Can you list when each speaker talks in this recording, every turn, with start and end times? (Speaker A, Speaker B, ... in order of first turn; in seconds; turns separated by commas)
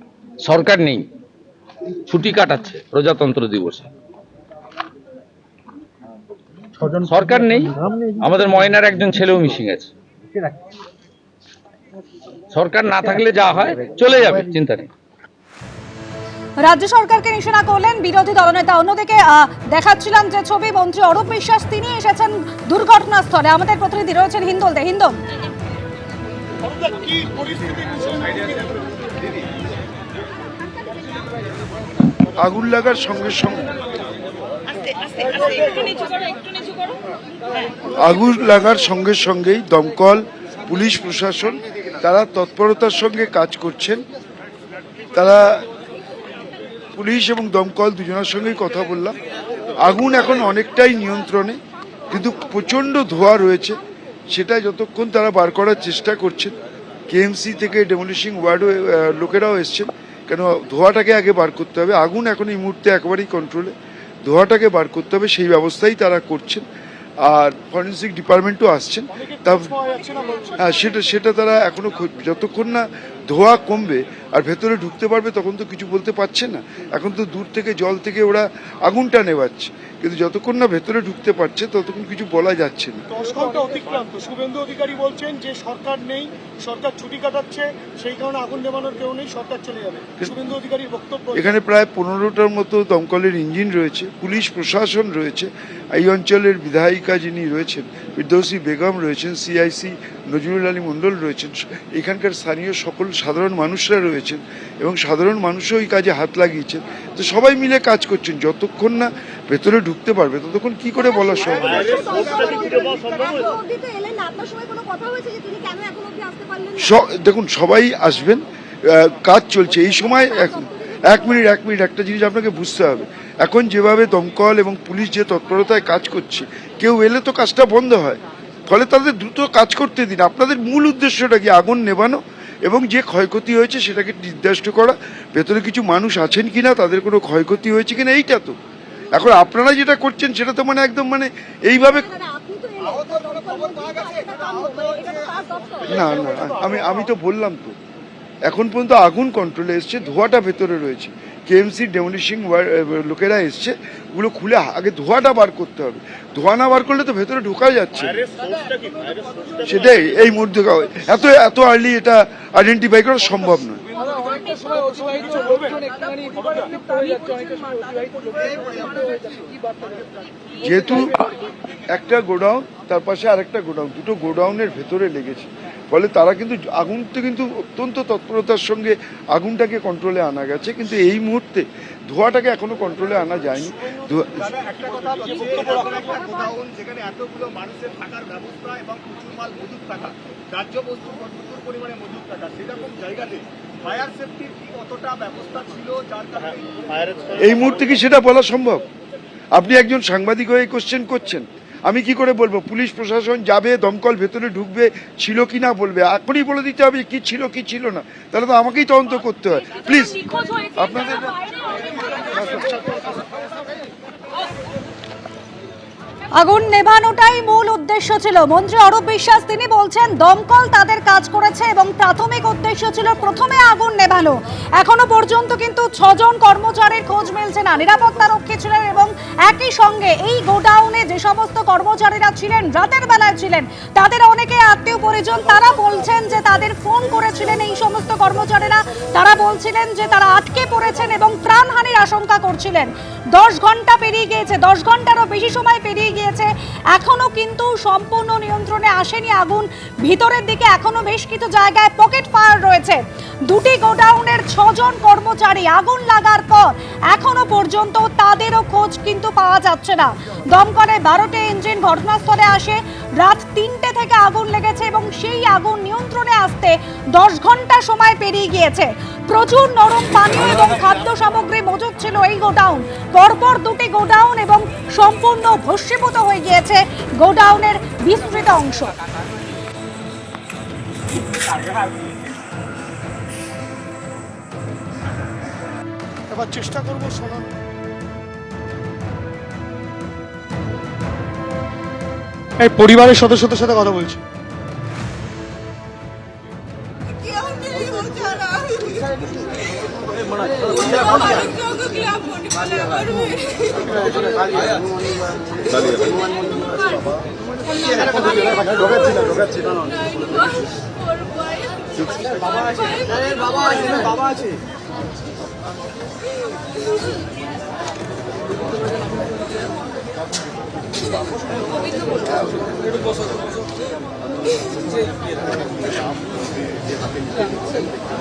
Speaker A: 0.4-1.1, Speaker A: 2.0-3.9, Speaker A: 6.9-9.9, Speaker A: 12.5-14.9, Speaker B: 16.6-25.2, Speaker C: 26.8-28.5, Speaker D: 32.4-33.7, Speaker D: 38.0-44.0, Speaker D: 45.1-45.6, Speaker D: 47.0-49.2, Speaker D: 49.8-51.6, Speaker D: 52.1-56.5, Speaker D: 57.1-66.7, Speaker D: 67.2-69.7, Speaker C: 69.2-70.8, Speaker D: 70.6-83.1, Speaker C: 83.1-91.5, Speaker D: 91.3-112.6, Speaker E: 113.9-116.6, Speaker D: 116.7-138.6, Speaker D: 139.2-142.3, Speaker E: 142.7-144.1, Speaker D: 145.8-147.7, Speaker D: 148.4-158.2, Speaker D: 159.6-163.8, Speaker C: 165.1-165.6, Speaker D: 170.6-171.2, Speaker D: 171.9-184.5, Speaker E: 186.4-190.1, Speaker E: 190.8-193.4, Speaker E: 194.0-196.4, Speaker D: 197.3-198.8, Speaker D: 199.6-212.9, Speaker B: 216.4-278.9, Speaker C: 286.3-287.5, Speaker C: 292.6-294.2